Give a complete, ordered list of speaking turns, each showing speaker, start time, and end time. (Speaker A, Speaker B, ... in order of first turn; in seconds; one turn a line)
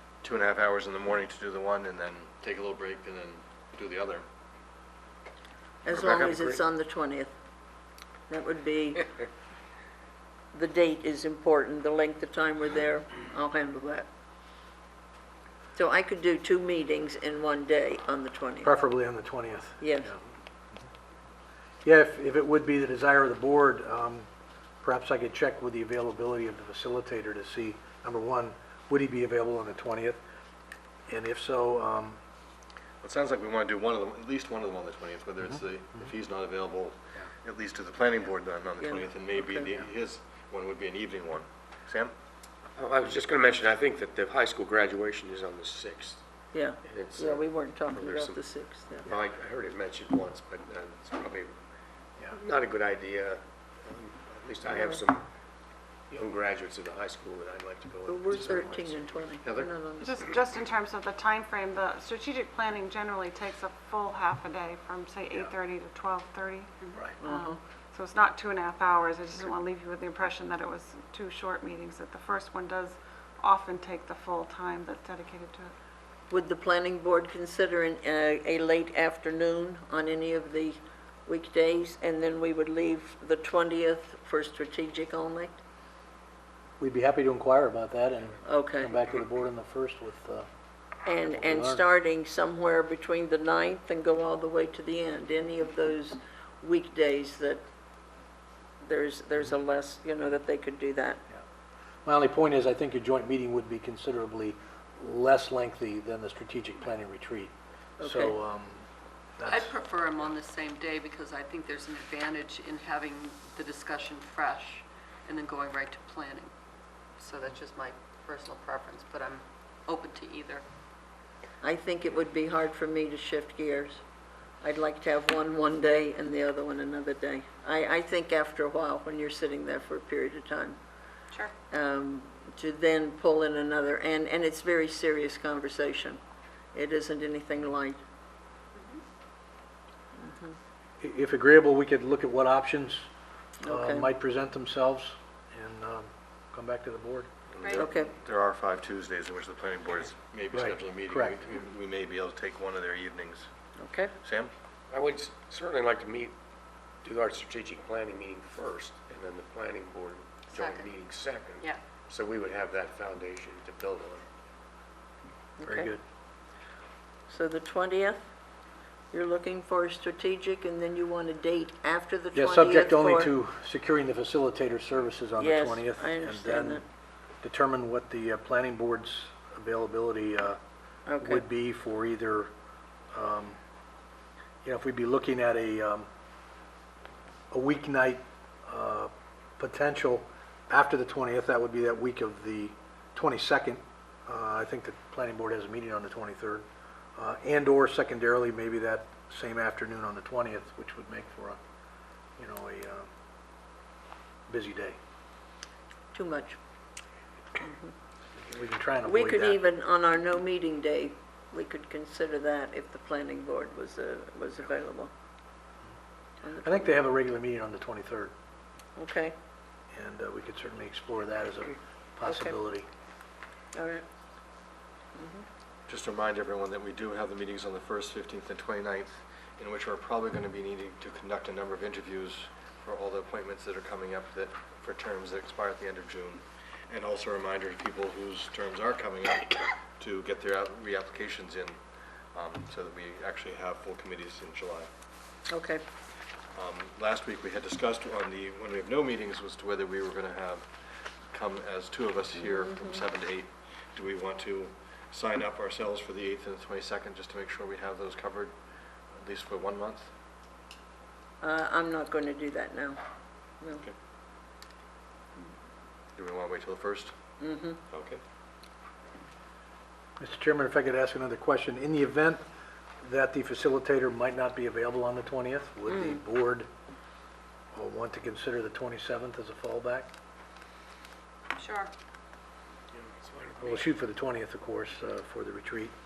Speaker A: 0.2-4.2
Speaker B: 5.8-7.3
Speaker A: 5.9-6.2
Speaker C: 5.9-6.6
Speaker B: 8.3-9.1
Speaker B: 10.5-14.1
Speaker B: 15.8-18.7
Speaker D: 18.6-20.2
Speaker B: 19.8-20.1
Speaker D: 21.8-24.3
Speaker D: 24.8-30.2
Speaker D: 31.1-32.2
Speaker A: 33.0-42.1
Speaker B: 38.8-39.7
Speaker C: 42.8-46.2
Speaker B: 46.5-49.1
Speaker C: 46.8-48.4
Speaker C: 49.0-51.5
Speaker C: 52.3-55.3
Speaker C: 56.1-59.7
Speaker B: 58.1-60.2
Speaker E: 60.0-75.7
Speaker B: 67.2-67.6
Speaker B: 76.3-85.6
Speaker D: 86.8-90.5
Speaker B: 88.4-88.9
Speaker B: 91.0-97.6
Speaker D: 91.2-91.8
Speaker B: 98.8-101.2
Speaker D: 102.0-108.8
Speaker B: 108.0-108.3
Speaker D: 109.4-109.8
Speaker F: 109.4-116.5
Speaker F: 117.2-120.6
Speaker B: 121.6-124.0
Speaker B: 124.6-130.8
Speaker B: 131.7-136.2
Speaker B: 136.7-138.0
Speaker B: 140.2-140.6
Speaker D: 141.0-143.1
Speaker B: 143.6-144.1
Speaker D: 143.6-147.3
Speaker A: 147.5-153.5
Speaker F: 147.6-147.9
Speaker B: 147.7-148.1
Speaker D: 150.5-151.4
Speaker B: 153.8-154.1
Speaker A: 154.2-154.5
Speaker C: 154.9-156.3
Speaker C: 157.0-164.2
Speaker F: 160.5-160.9
Speaker B: 165.6-165.9
Speaker D: 165.7-166.0
Speaker B: 167.3-168.2
Speaker B: 169.1-173.3
Speaker D: 172.3-176.8
Speaker B: 175.4-176.8
Speaker D: 177.4-180.6
Speaker B: 181.1-181.4
Speaker D: 181.2-182.5
Speaker D: 183.1-183.6
Speaker D: 184.6-186.1
Speaker D: 187.5-196.6
Speaker D: 197.2-201.6
Speaker D: 202.4-203.1
Speaker D: 204.5-205.0
Speaker B: 206.1-206.6
Speaker B: 207.6-207.9
Speaker D: 208.4-209.6
Speaker B: 209.0-215.1
Speaker B: 216.4-216.9
Speaker D: 216.6-218.3
Speaker B: 219.0-219.3
Speaker D: 219.9-222.9
Speaker B: 222.2-222.6
Speaker B: 223.7-224.0
Speaker B: 225.2-225.4
Speaker A: 225.9-241.8
Speaker A: 242.3-244.9
Speaker B: 245.5-245.8
Speaker A: 246.5-250.7
Speaker A: 251.3-258.5
Speaker B: 252.5-253.0
Speaker A: 259.2-260.1
Speaker B: 261.4-263.0
Speaker A: 266.1-267.1
Speaker B: 267.4-267.8
Speaker A: 267.9-268.2
Speaker D: 270.2-272.4
Speaker D: 273.0-276.7
Speaker D: 277.7-280.1
Speaker F: 281.6-281.9
Speaker C: 282.9-283.9
Speaker D: 283.6-285.9